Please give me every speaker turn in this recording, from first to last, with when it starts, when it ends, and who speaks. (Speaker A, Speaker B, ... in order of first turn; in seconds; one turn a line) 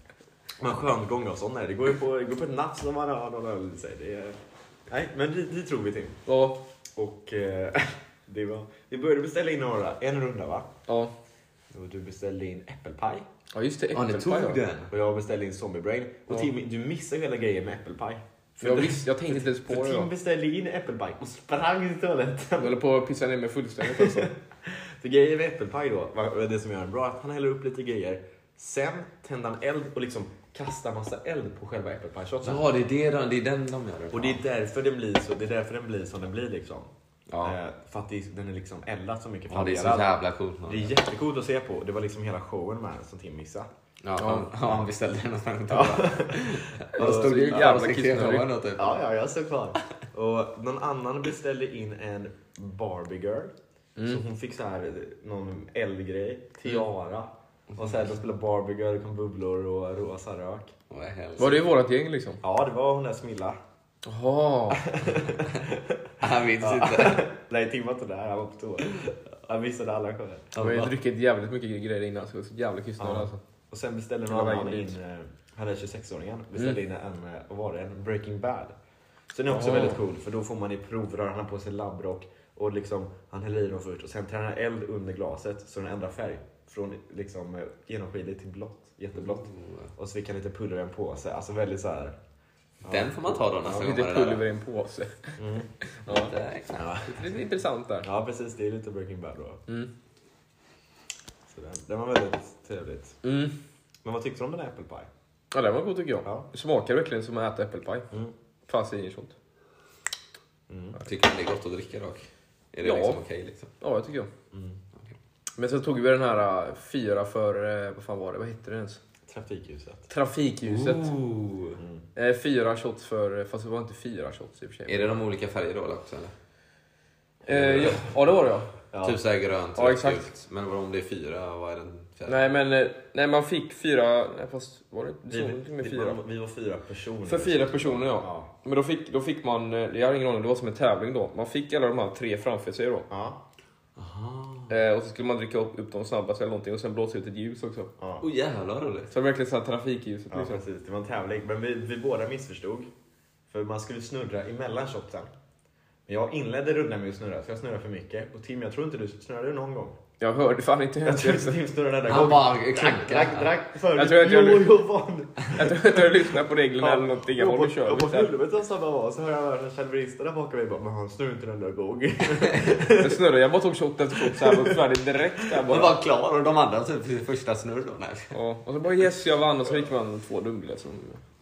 Speaker A: 0.6-4.4
Speaker A: 4.9-6.2
Speaker B: 6.3-6.6
Speaker A: 7.0-10.7
Speaker B: 10.9-11.1
Speaker A: 11.7-13.3
Speaker B: 13.5-14.6
Speaker C: 13.9-14.9
Speaker A: 14.9-22.8
Speaker B: 18.6-20.1
Speaker B: 22.6-24.3
Speaker A: 23.8-32.6
Speaker C: 32.4-34.4
Speaker A: 34.1-36.9
Speaker C: 37.3-37.6
Speaker A: 37.4-40.1
Speaker C: 39.5-41.0
Speaker A: 40.7-43.7
Speaker C: 44.0-49.0
Speaker B: 44.2-44.5
Speaker A: 45.7-47.8
Speaker B: 46.9-48.5
Speaker A: 48.8-60.7
Speaker B: 54.0-54.2
Speaker C: 60.9-61.6
Speaker B: 61.4-62.4
Speaker A: 62.4-63.6
Speaker B: 64.0-64.9
Speaker A: 64.7-66.0
Speaker C: 66.2-67.3
Speaker A: 66.6-70.5
Speaker C: 70.5-70.9
Speaker B: 70.6-73.4
Speaker A: 73.0-78.7
Speaker B: 74.3-75.0
Speaker A: 79.3-92.2
Speaker C: 89.2-89.9
Speaker A: 92.8-93.9
Speaker C: 92.8-94.4
Speaker B: 93.7-95.4
Speaker A: 95.4-95.7
Speaker B: 96.0-96.3
Speaker C: 96.0-97.3
Speaker A: 96.7-97.2
Speaker B: 97.1-98.1
Speaker A: 98.0-99.6
Speaker A: 101.5-103.2
Speaker B: 103.2-103.5
Speaker A: 104.0-105.1
Speaker B: 105.5-108.1
Speaker B: 108.7-109.3
Speaker A: 110.7-111.0
Speaker C: 111.0-113.7
Speaker B: 112.8-113.2
Speaker B: 113.8-114.3
Speaker A: 114.5-114.8
Speaker B: 115.6-119.0
Speaker A: 119.3-120.1
Speaker B: 120.1-121.1
Speaker C: 120.6-121.8
Speaker A: 121.8-122.0
Speaker B: 122.2-125.0
Speaker C: 124.9-126.3
Speaker B: 127.5-128.7
Speaker C: 127.5-128.0
Speaker A: 128.9-129.2
Speaker C: 129.0-132.5
Speaker B: 129.8-130.3
Speaker B: 132.3-136.2
Speaker A: 135.3-138.5
Speaker B: 137.3-143.1
Speaker A: 143.1-143.4
Speaker C: 143.9-144.7
Speaker B: 144.7-147.9
Speaker A: 148.0-148.2
Speaker C: 148.2-149.1
Speaker B: 149.1-150.6
Speaker A: 150.3-152.9
Speaker A: 153.5-155.3
Speaker A: 156.1-160.0
Speaker B: 160.2-161.6
Speaker A: 161.0-166.2
Speaker C: 162.0-163.6
Speaker B: 163.9-164.8
Speaker B: 165.4-168.3
Speaker A: 166.8-173.2
Speaker B: 172.9-175.9
Speaker A: 174.1-174.8
Speaker C: 175.7-178.3
Speaker B: 178.3-181.2